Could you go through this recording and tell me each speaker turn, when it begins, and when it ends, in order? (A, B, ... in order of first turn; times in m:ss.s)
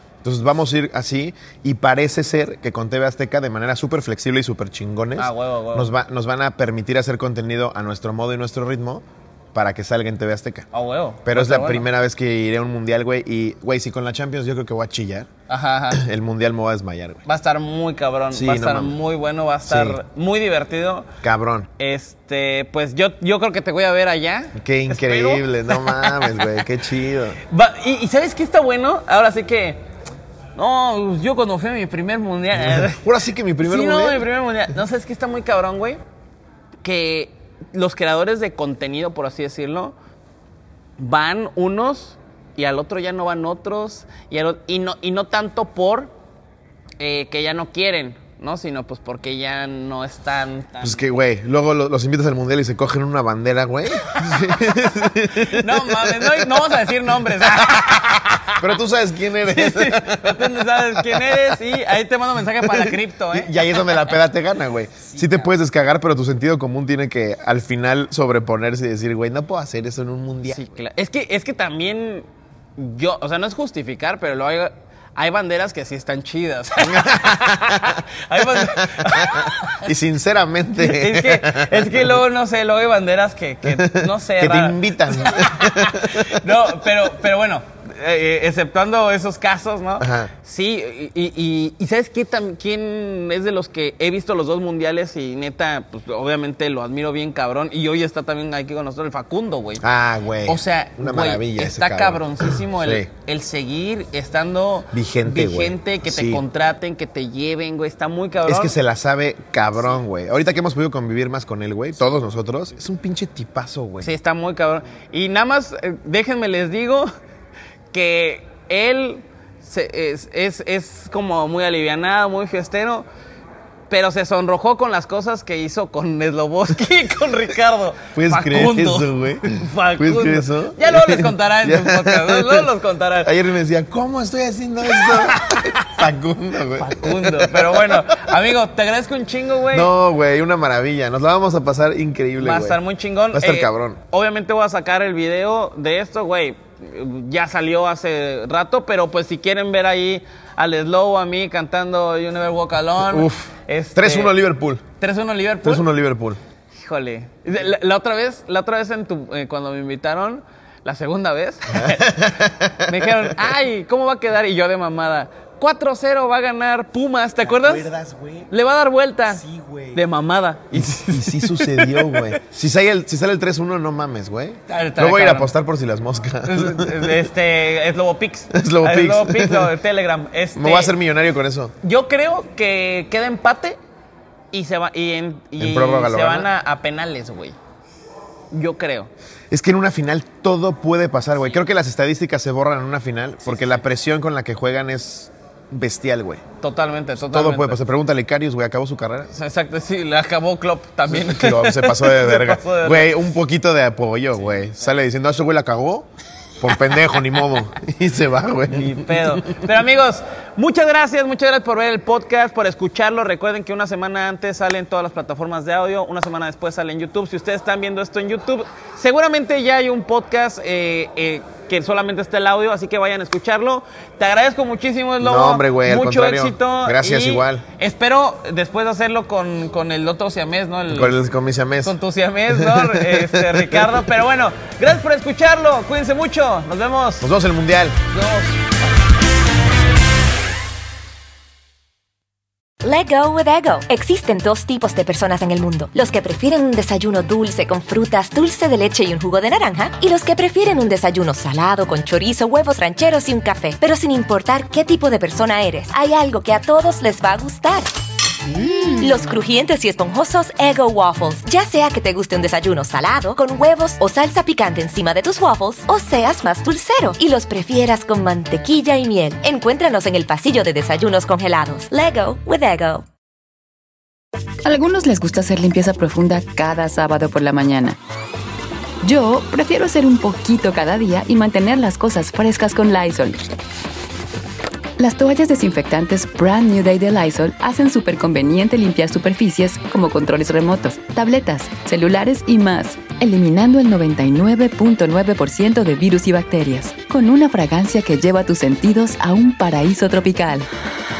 0:00.2-0:10.7 A
0:05.2-0:05.9 B
0:10.7-0:11.9 B
0:11.2-0:15.3 A
0:15.5-0:16.0 B
0:15.9-0:17.2 A
0:17.3-0:21.1 B
0:18.3-0:19.0 A
0:19.6-0:20.0 A
0:21.2-0:21.7 A
0:21.8-0:26.6 B
0:24.5-0:27.4 A
0:27.5-0:29.8 B
0:30.6-0:33.1 B
0:32.5-0:34.3 A
0:33.6-0:36.0 B
0:36.8-0:39.9 B
0:41.0-0:46.1 B
0:47.0-0:51.0 B
0:50.8-0:56.5 A
0:54.1-0:58.8 B
0:57.6-0:57.9 A
0:58.5-1:01.6 A
0:59.4-1:04.2 B
1:02.6-1:10.7 A
1:05.0-1:05.5 B
1:10.4-1:12.2 B
1:12.8-1:19.9 B
1:16.8-1:18.0 A
1:18.8-1:22.2 A
1:20.8-1:39.8 B
1:23.6-1:26.6 A
1:30.0-1:30.3 A
1:39.8-1:43.1 A
1:40.4-1:48.7 B
1:44.9-1:46.4 A
1:48.4-1:54.1 A
1:54.0-1:57.1 B
1:57.9-2:03.0 B
2:03.9-2:13.3 B
2:08.1-2:12.7 A
2:13.2-2:18.4 A
2:14.8-2:15.9 B
2:16.7-2:19.9 B
2:19.7-2:22.8 A
2:22.4-2:34.4 B
2:23.3-2:24.0 A
2:33.0-2:34.8 A
2:35.0-2:35.8 B
2:35.6-2:36.4 A
2:36.8-2:47.9 B
2:41.7-2:43.4 A
2:47.4-2:48.5 A
2:48.5-2:52.4 B
2:49.3-2:50.0 A
2:50.7-2:57.3 A
2:54.7-2:55.5 B
2:56.4-3:00.9 B
2:58.5-2:59.7 A
3:00.6-3:01.7 A
3:01.8-3:03.8 B
3:04.5-3:07.6 B
3:05.6-3:06.5 A
3:08.5-3:09.1 B
3:09.5-3:16.4 A
3:16.6-3:17.8 B
3:17.2-3:19.3 A
3:19.3-3:23.2 B
3:21.1-3:26.1 A
3:26.6-3:29.6 A
3:28.7-3:51.2 B
3:45.2-3:47.6 A
3:50.9-3:52.0 A
3:51.8-3:57.3 B
3:52.5-3:54.0 A
3:57.2-3:58.0 A
3:58.1-3:58.8 B
4:02.8-4:17.9 C
4:18.8-4:33.0 C
4:34.6-4:38.0 D
4:39.0-4:43.4 D
4:45.0-5:00.7 D